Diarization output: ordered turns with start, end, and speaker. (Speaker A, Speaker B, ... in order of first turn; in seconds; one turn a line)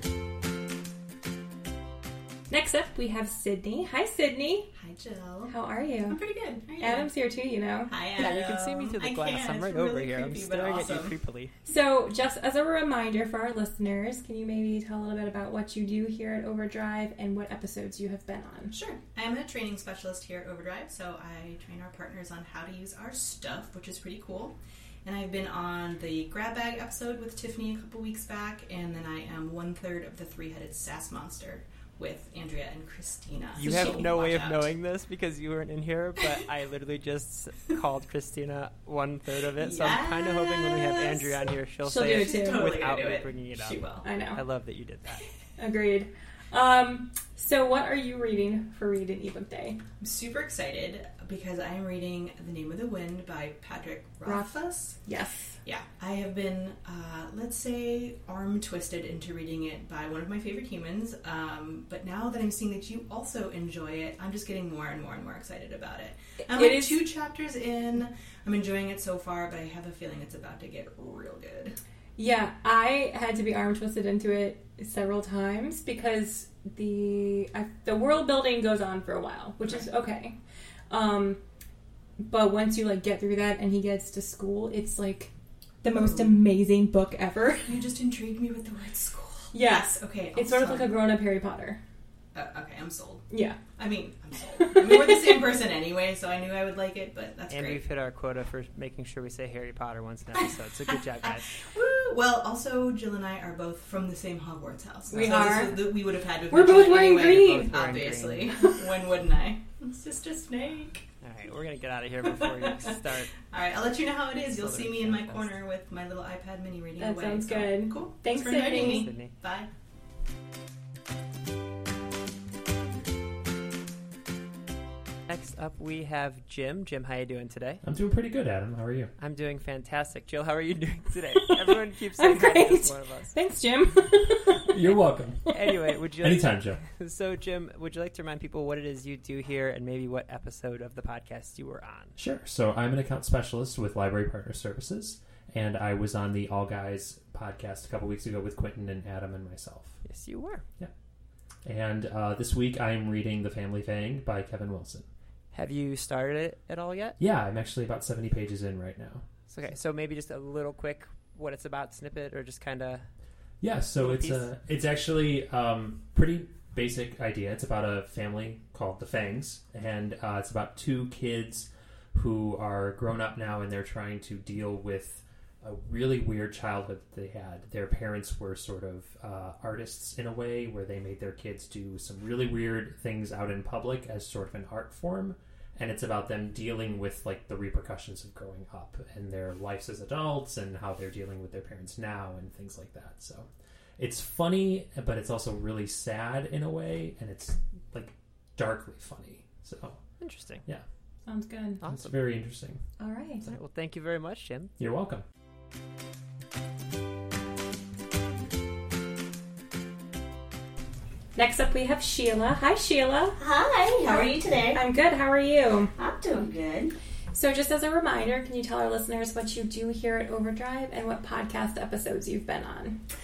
Speaker A: 2.5-4.7
Speaker B: 4.8-5.5
Speaker A: 5.5-6.2
Speaker B: 6.1-7.1
Speaker A: 6.8-7.9
Speaker B: 7.9-11.2
Speaker C: 8.2-11.5
Speaker A: 11.7-18.7
Speaker B: 18.7-34.7
Speaker C: 33.5-45.2
Speaker A: 33.6-34.0
Speaker B: 39.6-44.1
Speaker A: 41.9-42.6
Speaker A: 44.0-44.4
Speaker A: 45.6-49.8
Speaker B: 50.0-55.0
Speaker A: 54.2-55.6
Speaker B: 55.6-71.8
Speaker A: 66.5-67.0
Speaker A: 72.2-80.3
Speaker A: 80.9-81.4
Speaker A: 82.2-85.3
Speaker A: 85.8-87.8
Speaker B: 85.9-86.4
Speaker B: 87.6-90.9
Speaker A: 89.5-91.8
Speaker B: 92.3-93.3
Speaker A: 93.3-93.6
Speaker B: 93.8-97.8
Speaker A: 94.6-95.3
Speaker C: 97.5-101.5
Speaker B: 101.2-111.1
Speaker A: 105.1-106.0
Speaker A: 106.5-107.7
Speaker C: 107.5-108.8
Speaker C: 111.2-113.3
Speaker B: 112.3-119.7
Speaker C: 114.5-115.6
Speaker A: 117.0-119.1
Speaker C: 118.7-119.4
Speaker C: 125.3-127.8
Speaker D: 127.8-129.1
Speaker C: 129.2-133.3
Speaker A: 132.2-134.7
Speaker D: 134.6-135.6
Speaker C: 135.5-142.2
Speaker D: 136.2-136.8
Speaker D: 142.2-150.0
Speaker C: 150.0-150.7
Speaker D: 151.7-155.1
Speaker C: 155.5-157.2
Speaker D: 157.2-159.3
Speaker C: 159.5-163.1
Speaker D: 163.6-193.5
Speaker C: 163.9-164.5
Speaker D: 194.0-200.0
Speaker C: 200.2-200.7
Speaker A: 201.3-201.8
Speaker C: 201.8-202.3
Speaker D: 201.8-202.8
Speaker A: 203.0-203.5
Speaker C: 203.4-204.7
Speaker D: 204.8-205.2
Speaker A: 211.3-213.4
Speaker E: 213.4-214.8
Speaker A: 214.7-215.9
Speaker E: 216.0-216.9
Speaker A: 217.3-223.0